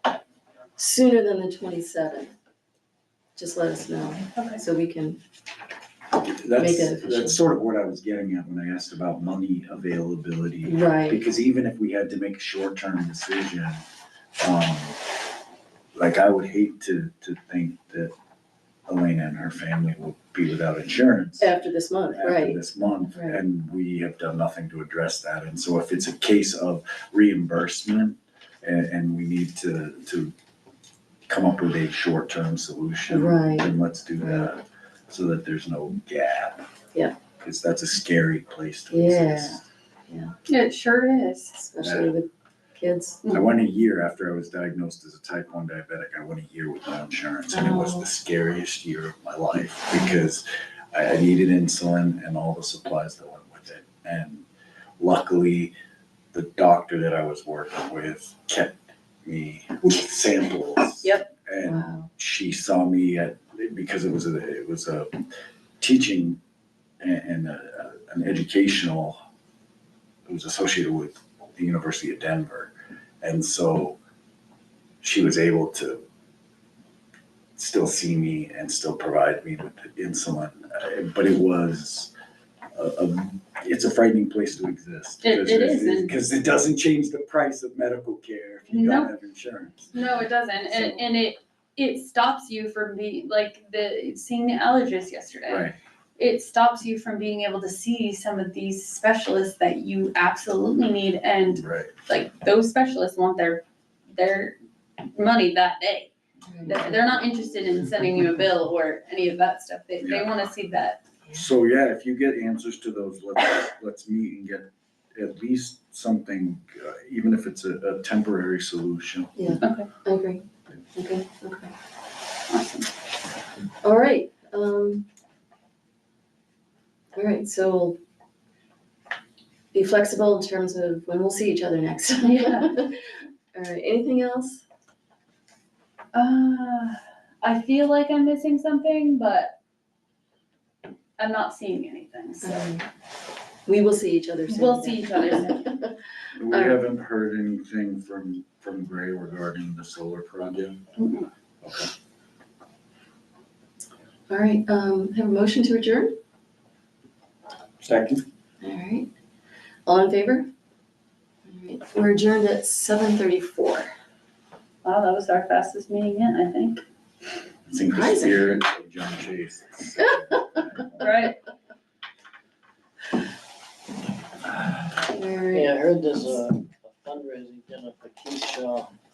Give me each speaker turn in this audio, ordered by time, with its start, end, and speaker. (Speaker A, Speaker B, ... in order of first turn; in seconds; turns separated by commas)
Speaker A: 0.8-2.3, Speaker A: 3.4-5.2, Speaker B: 4.3-4.6, Speaker C: 6.1-13.8, Speaker A: 6.6-7.4, Speaker A: 10.6-11.2, Speaker C: 14.4-15.0, Speaker C: 15.9-18.1, Speaker C: 18.9-21.5, Speaker A: 21.4-22.6, Speaker C: 22.1-30.3, Speaker C: 31.3-36.6, Speaker A: 33.1-34.5, Speaker C: 37.4-39.6, Speaker A: 38.9-40.3, Speaker B: 40.5-41.5, Speaker A: 41.5-43.2, Speaker C: 41.8-42.1, Speaker C: 43.3-54.4, Speaker A: 47.5-48.1, Speaker C: 55.0-55.7, Speaker C: 56.3-65.2, Speaker B: 61.0-61.3, Speaker A: 61.6-62.1, Speaker C: 65.8-66.4, Speaker C: 67.0-69.2, Speaker C: 70.3-74.0, Speaker C: 75.0-76.0, Speaker C: 77.5-82.1, Speaker C: 82.7-90.0, Speaker B: 85.2-86.1, Speaker B: 88.7-89.1, Speaker B: 89.9-106.1, Speaker C: 95.5-95.8, Speaker C: 101.5-101.9, Speaker A: 106.5-106.8, Speaker B: 106.7-111.0, Speaker C: 110.0-110.3, Speaker C: 111.3-119.3, Speaker A: 119.3-121.7, Speaker B: 119.6-119.9, Speaker B: 122.5-122.9, Speaker A: 123.8-125.0, Speaker A: 127.1-128.0, Speaker A: 129.7-133.0, Speaker B: 132.2-132.8, Speaker A: 133.5-134.6, Speaker B: 136.1-139.5, Speaker B: 141.2-142.6, Speaker A: 142.4-142.8, Speaker A: 143.7-146.0, Speaker B: 144.5-145.6, Speaker C: 146.3-150.8, Speaker A: 146.5-146.8, Speaker B: 151.0-151.3, Speaker C: 151.6-151.9, Speaker A: 154.3-156.1, Speaker C: 157.8-158.2, Speaker A: 158.6-159.1, Speaker A: 159.8-160.5, Speaker A: 161.4-163.9, Speaker B: 164.8-166.8, Speaker C: 167.7-171.1, Speaker A: 167.9-168.6, Speaker B: 171.0-171.3, Speaker A: 175.1-175.8, Speaker D: 175.5-178.9